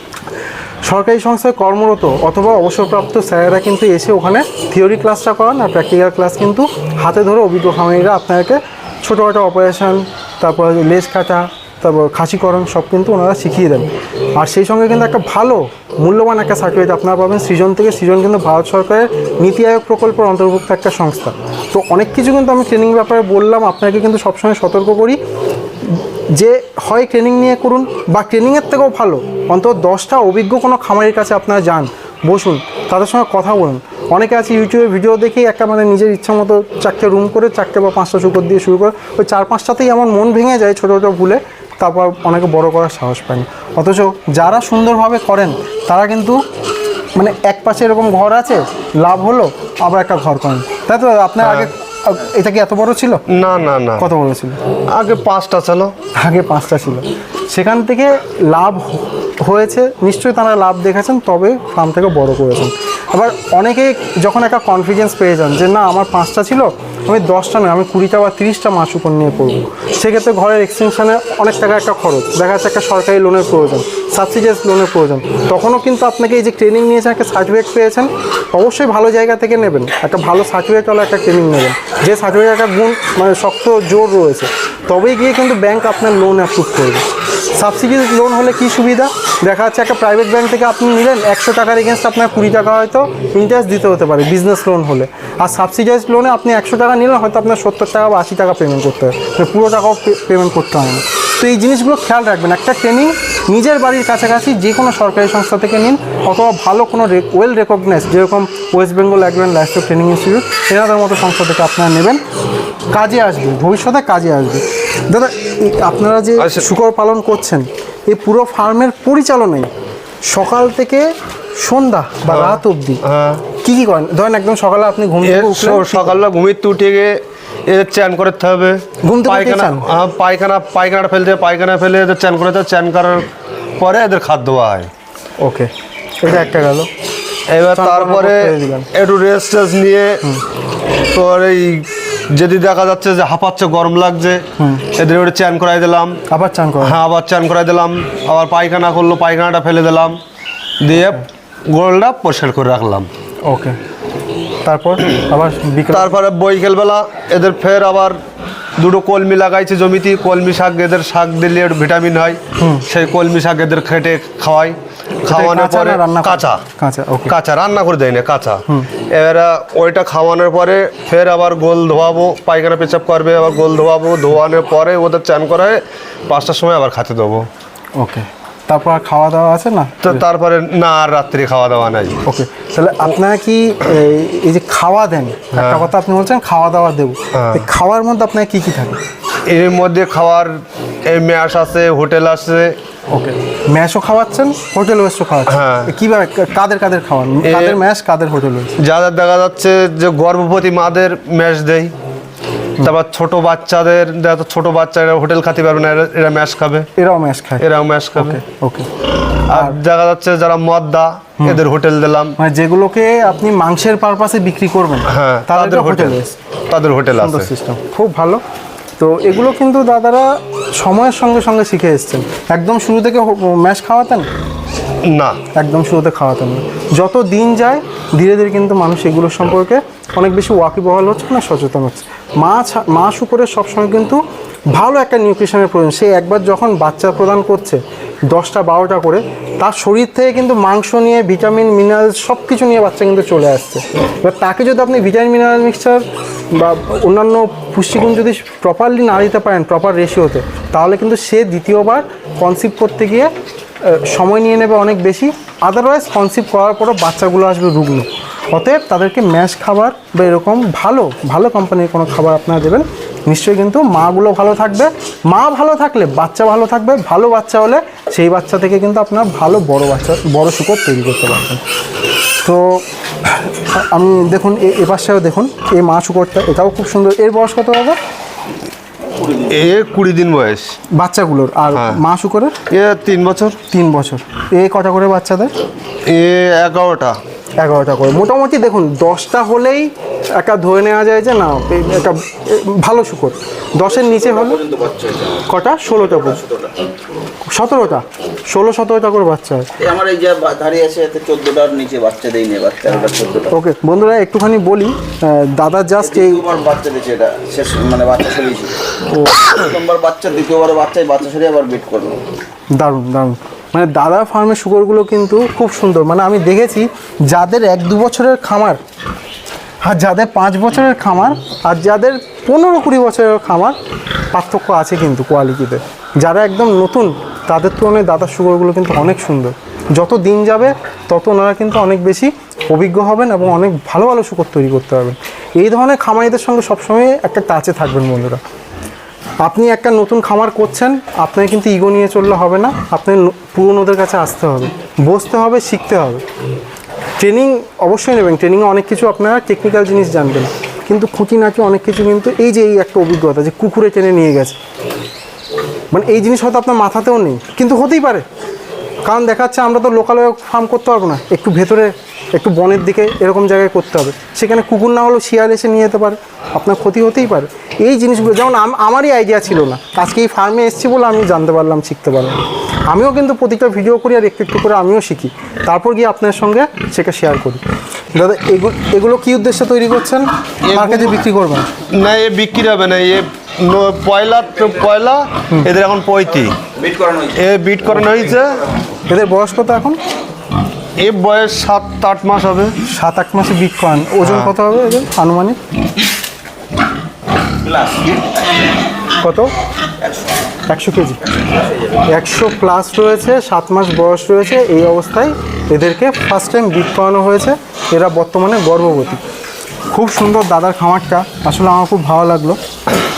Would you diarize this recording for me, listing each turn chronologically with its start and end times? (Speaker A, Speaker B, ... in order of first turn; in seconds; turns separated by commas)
Speaker A: 0.8-25.2, Speaker A: 25.8-46.4, Speaker A: 47.2-53.2, Speaker B: 51.4-51.7, Speaker B: 53.3-54.1, Speaker A: 54.0-54.6, Speaker B: 54.9-55.9, Speaker A: 56.1-112.2, Speaker A: 112.9-119.7, Speaker B: 116.4-116.7, Speaker A: 120.2-123.0, Speaker B: 122.2-123.4, Speaker A: 123.6-126.2, Speaker B: 125.2-133.3, Speaker A: 129.0-129.9, Speaker B: 133.8-134.9, Speaker A: 135.4-135.7, Speaker A: 136.2-136.9, Speaker B: 137.5-140.2, Speaker A: 137.7-138.9, Speaker B: 141.1-146.2, Speaker A: 144.6-144.9, Speaker A: 146.3-147.0, Speaker B: 146.8-150.2, Speaker B: 150.8-153.1, Speaker A: 153.5-153.8, Speaker A: 154.6-156.1, Speaker B: 155.9-158.2, Speaker B: 158.8-166.6, Speaker A: 162.6-162.9, Speaker A: 165.3-167.3, Speaker B: 167.3-177.5, Speaker A: 178.0-180.2, Speaker B: 180.0-182.2, Speaker A: 182.2-189.0, Speaker B: 185.5-185.9, Speaker B: 187.3-187.7, Speaker B: 189.5-192.8, Speaker A: 193.1-198.7, Speaker B: 195.5-195.9, Speaker B: 197.4-197.8, Speaker B: 198.8-201.9, Speaker B: 202.8-206.9, Speaker A: 207.0-208.9, Speaker B: 207.6-208.4, Speaker B: 209.5-212.4, Speaker A: 209.5-209.8, Speaker A: 212.4-216.4, Speaker B: 215.1-216.2, Speaker B: 216.7-217.5, Speaker A: 217.2-218.4, Speaker A: 219.0-224.3, Speaker B: 225.1-225.4, Speaker A: 225.5-234.2, Speaker A: 234.7-237.8, Speaker A: 238.3-253.3, Speaker A: 253.8-271.6, Speaker A: 272.4-278.0, Speaker B: 279.5-280.8, Speaker A: 280.9-282.6, Speaker B: 281.7-282.0, Speaker B: 282.7-283.6, Speaker A: 283.7-285.5, Speaker B: 286.1-287.2, Speaker A: 287.6-294.6, Speaker C: 294.0-295.5, Speaker A: 295.5-296.4, Speaker C: 296.2-296.7, Speaker A: 297.5-299.7, Speaker C: 299.8-303.5, Speaker A: 303.5-306.5, Speaker C: 306.2-308.8, Speaker A: 309.1-309.5, Speaker C: 309.5-312.2, Speaker A: 312.8-318.8, Speaker A: 319.8-323.8, Speaker A: 324.3-338.4, Speaker A: 339.4-346.2, Speaker A: 347.2-354.6, Speaker A: 355.9-358.2, Speaker A: 359.1-381.7, Speaker B: 380.7-381.2, Speaker B: 381.9-386.6, Speaker C: 386.8-387.4, Speaker B: 387.3-388.7, Speaker A: 389.1-390.0, Speaker B: 391.0-392.8, Speaker A: 392.9-395.6, Speaker B: 394.2-394.5, Speaker C: 397.6-398.4, Speaker A: 399.2-399.5, Speaker A: 400.7-401.2, Speaker A: 402.1-409.2, Speaker A: 409.9-412.6